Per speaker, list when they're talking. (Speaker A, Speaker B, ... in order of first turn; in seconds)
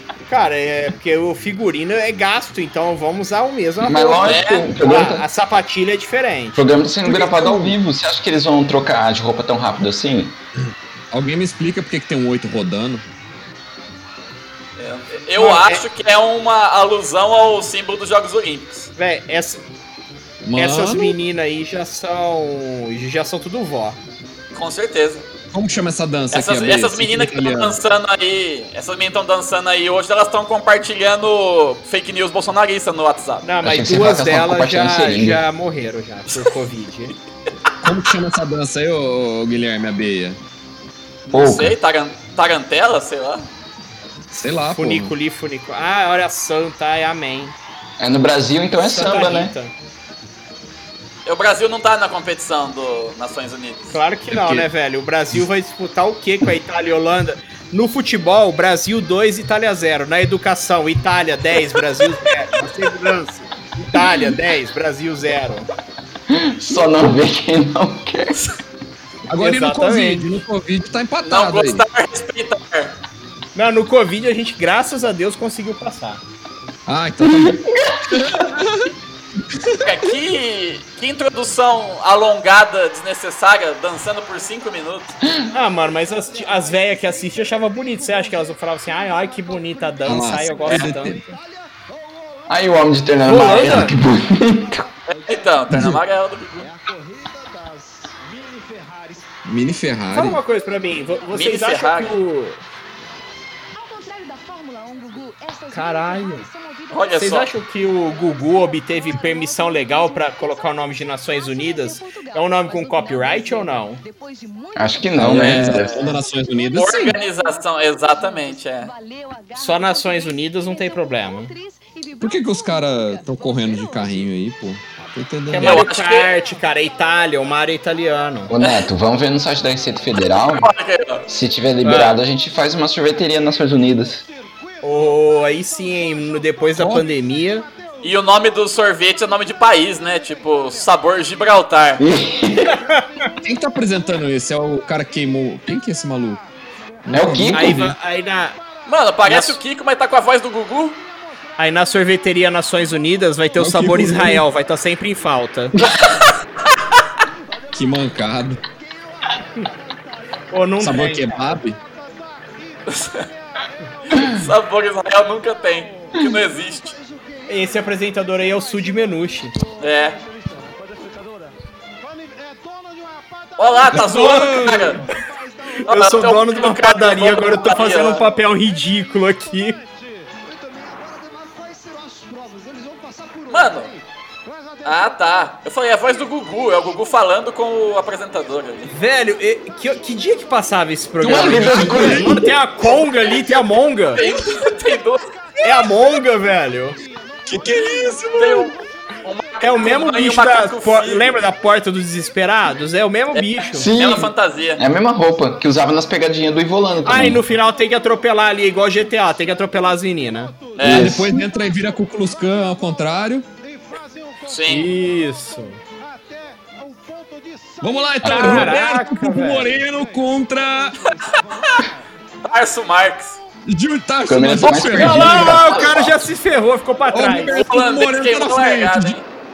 Speaker A: 0.2-7.7, 15.4-15.8, 19.0-19.6, 20.6-24.0, 33.4-37.1, 44.7-47.5, 48.8-49.7, 53.9-65.7, 69.4-70.3, 73.5-76.2, 85.5-91.2, 93.2-94.0, 100.1-102.6, 105.7-106.5, 107.2-114.0, 119.5-121.6, 125.5-128.5, 131.8-132.1, 134.8-137.7, 142.7-143.3, 147.5-148.6, 149.2-149.6, 151.6-155.8, 160.5-161.6, 167.5-169.6, 174.0-175.0, 175.8-179.8, 188.9-194.2, 195.6-197.0, 199.6-203.9, 207.1-210.6, 214.7-215.8, 218.2-219.8, 224.9-227.6
Speaker B: 3.8-5.2, 6.5-10.4, 33.6-35.4, 41.3-41.8, 48.0-49.5, 66.3-68.4, 77.2-78.3, 92.5-94.9, 114.8-116.0, 128.5-130.7, 131.3-134.2, 142.0-142.8, 147.1-147.8, 191.2-192.5, 203.7-207.4, 210.8-211.4, 218.2-218.6, 224.2-226.2
Speaker C: 4.2-4.7, 14.8-18.9, 24.5-25.3, 26.3-33.5, 41.3-43.5, 51.2-54.0, 71.2-73.0, 79.8-85.2, 95.1-96.6, 101.3-102.1, 106.9-107.5, 115.2-116.2, 116.7-118.9, 125.6-126.3, 128.6-128.9, 130.3-131.2, 138.0-142.0, 148.9-151.0, 162.9-163.3, 164.1-167.0, 169.8-170.2, 173.6-175.1, 175.9-178.2, 183.5-184.0, 184.8-188.9, 194.1-195.3, 198.4-201.4, 203.3-204.8, 210.8-211.2, 214.5-214.9, 221.3-221.8, 222.4-223.4, 225.4-225.8, 227.5-229.2
Speaker D: 11.1-13.1, 20.4-21.2, 25.5-27.8, 37.8-40.4, 44.3-45.1, 54.3-54.7, 69.3-71.8, 76.9-78.9, 79.5-79.9, 90.0-91.3, 95.7-96.0, 99.5-100.4, 115.1-117.2, 122.2-125.8, 136.8-137.1, 143.4-146.4, 147.0-147.9, 153.6-154.4, 157.7-158.6, 160.8-161.8, 173.9-175.0, 191.2-192.5, 197.5-198.8, 210.8-213.5, 217.8-221.0, 223.7-225.7, 227.1-229.2